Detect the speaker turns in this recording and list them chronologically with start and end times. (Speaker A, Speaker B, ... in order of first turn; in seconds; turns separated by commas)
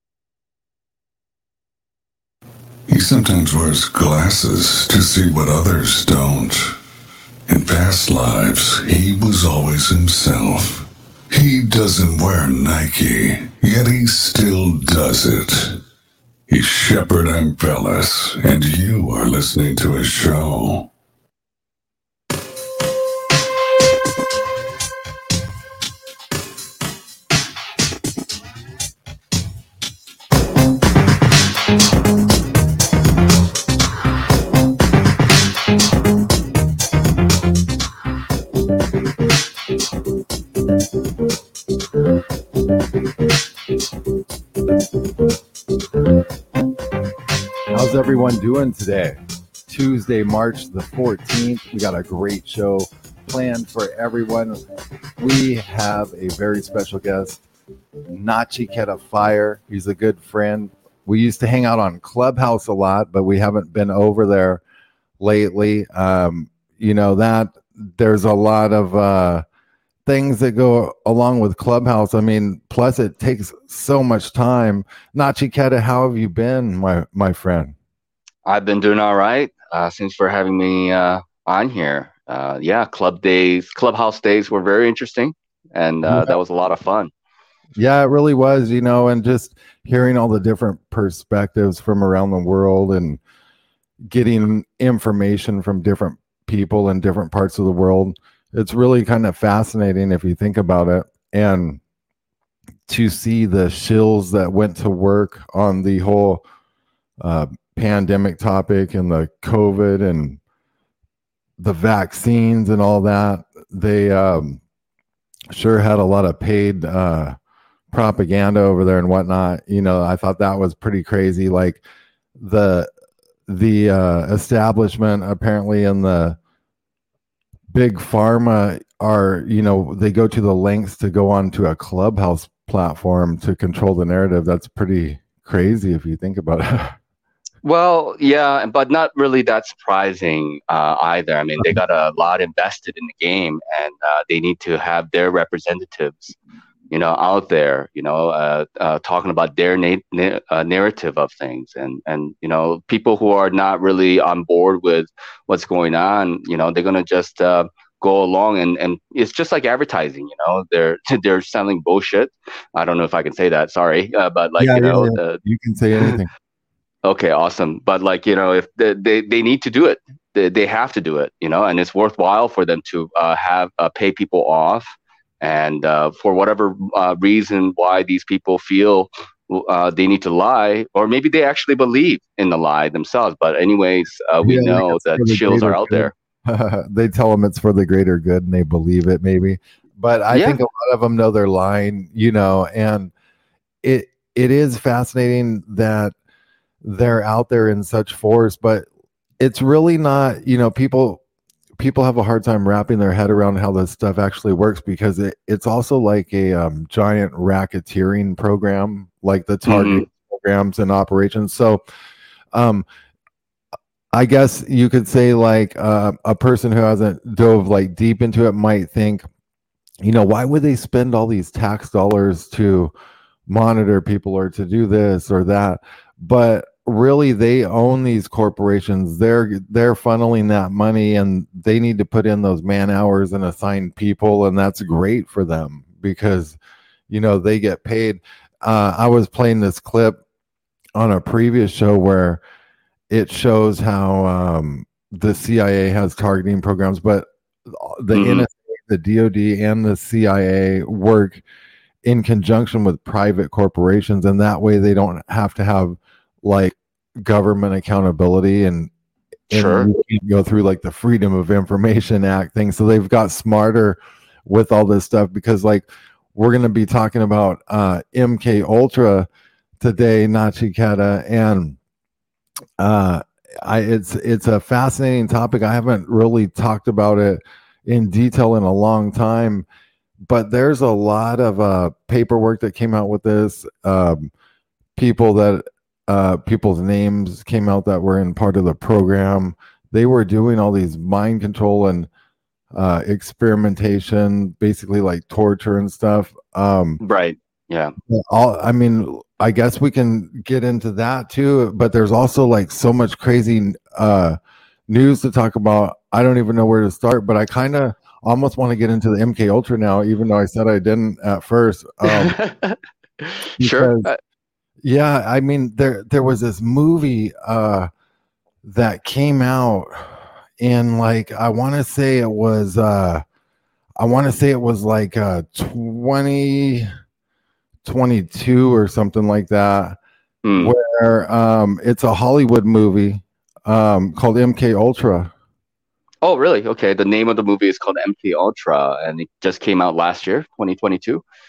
Speaker A: 2.9-6.7, Speaker A: 7.5-15.8, Speaker A: 16.5-20.9, Speaker B: 47.7-54.6, Speaker B: 55.2-57.4, Speaker B: 58.1-64.6, Speaker B: 65.2-69.4, Speaker B: 70.0-77.7, Speaker C: 78.5-87.1, Speaker B: 86.0-86.3, Speaker B: 87.8-93.2, Speaker B: 94.1-101.8, Speaker B: 102.9-106.4, Speaker B: 107.2-110.4, Speaker B: 111.6-114.6, Speaker B: 115.5-117.3, Speaker B: 117.9-121.8, Speaker B: 122.4-122.9, Speaker B: 123.5-126.4, Speaker B: 127.7-136.9, Speaker C: 137.6-146.3, Speaker C: 146.9-165.4, Speaker B: 164.6-166.3, Speaker C: 167.0-186.1, Speaker B: 184.4-193.1, Speaker C: 190.3-190.6, Speaker B: 193.8-196.1, Speaker B: 196.8-198.8, Speaker B: 199.4-201.2, Speaker B: 201.8-211.8, Speaker C: 209.7-210.1, Speaker B: 212.5-212.8, Speaker B: 214.1-219.3, Speaker B: 220.0-222.9, Speaker B: 223.5-236.6, Speaker B: 237.1-240.2, Speaker B: 240.9-242.4, Speaker B: 243.1-251.4, Speaker C: 248.1-248.4, Speaker B: 252.0-258.9, Speaker B: 259.5-269.3, Speaker C: 259.5-259.9, Speaker B: 269.8-271.8, Speaker B: 272.8-279.6, Speaker B: 280.2-284.3, Speaker B: 284.9-292.1, Speaker B: 292.7-297.0, Speaker C: 297.0-297.9, Speaker B: 298.1-304.4, Speaker B: 304.9-312.4, Speaker C: 312.0-314.2, Speaker B: 313.6-314.1, Speaker B: 314.8-317.9, Speaker B: 318.6-323.2, Speaker B: 324.0-326.9, Speaker B: 327.8-330.0, Speaker C: 330.4-330.7, Speaker B: 330.6-335.3, Speaker C: 336.2-341.2